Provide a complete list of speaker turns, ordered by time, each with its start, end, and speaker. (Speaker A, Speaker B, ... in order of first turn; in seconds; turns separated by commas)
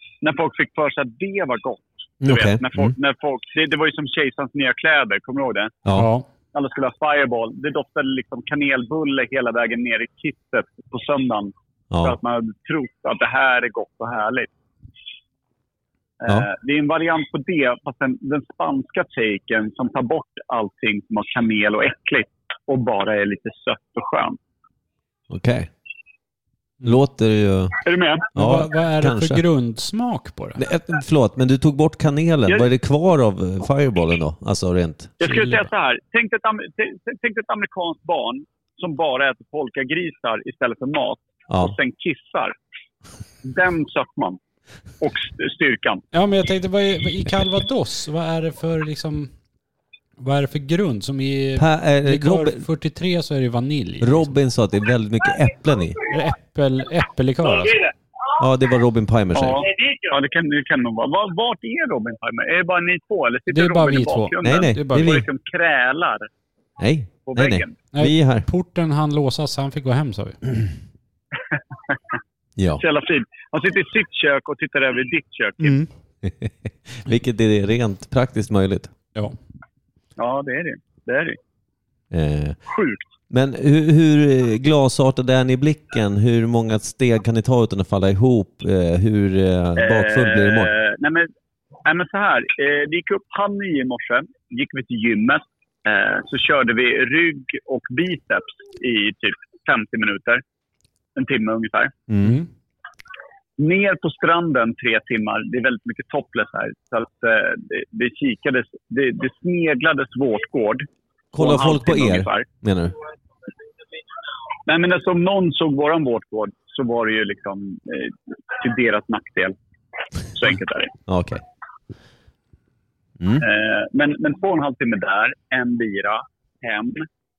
Speaker A: 0.2-5.8, Speaker B: 2.2-3.0, Speaker C: 5.9-6.3, Speaker A: 6.5-14.5, Speaker B: 11.9-12.2, Speaker A: 16.2-24.4, Speaker B: 25.3-25.7, Speaker B: 26.8-27.8, Speaker A: 27.9-28.3, Speaker B: 28.4-29.4, Speaker C: 28.4-30.6, Speaker B: 30.6-35.2, Speaker A: 35.2-42.5, Speaker C: 35.3-35.7, Speaker B: 41.5-41.7, Speaker A: 43.4-44.4, Speaker A: 45.0-46.0, Speaker C: 46.1-49.3, Speaker C: 50.2-54.3, Speaker B: 51.6-52.6, Speaker B: 54.0-56.0, Speaker C: 56.1-57.9, Speaker B: 58.4-59.6, Speaker A: 59.4-66.3, Speaker C: 63.5-65.2, Speaker B: 64.4-65.2, Speaker B: 66.8-68.5, Speaker A: 67.3-67.8, Speaker C: 67.9-70.4, Speaker B: 72.6-72.8, Speaker A: 72.8-75.8, Speaker C: 75.6-75.9, Speaker B: 76.2-78.9, Speaker A: 80.2-81.4, Speaker B: 82.1-82.6, Speaker A: 82.7-83.1, Speaker B: 83.3-90.7, Speaker A: 89.8-91.3, Speaker A: 91.8-100.4, Speaker A: 101.2-102.0, Speaker B: 102.1-102.4, Speaker C: 102.2-102.5, Speaker A: 103.6-112.5, Speaker B: 111.3-113.0, Speaker A: 114.7-119.5, Speaker A: 120.3-120.9, Speaker B: 121.1-121.4, Speaker B: 123.2-123.5, Speaker A: 123.4-127.1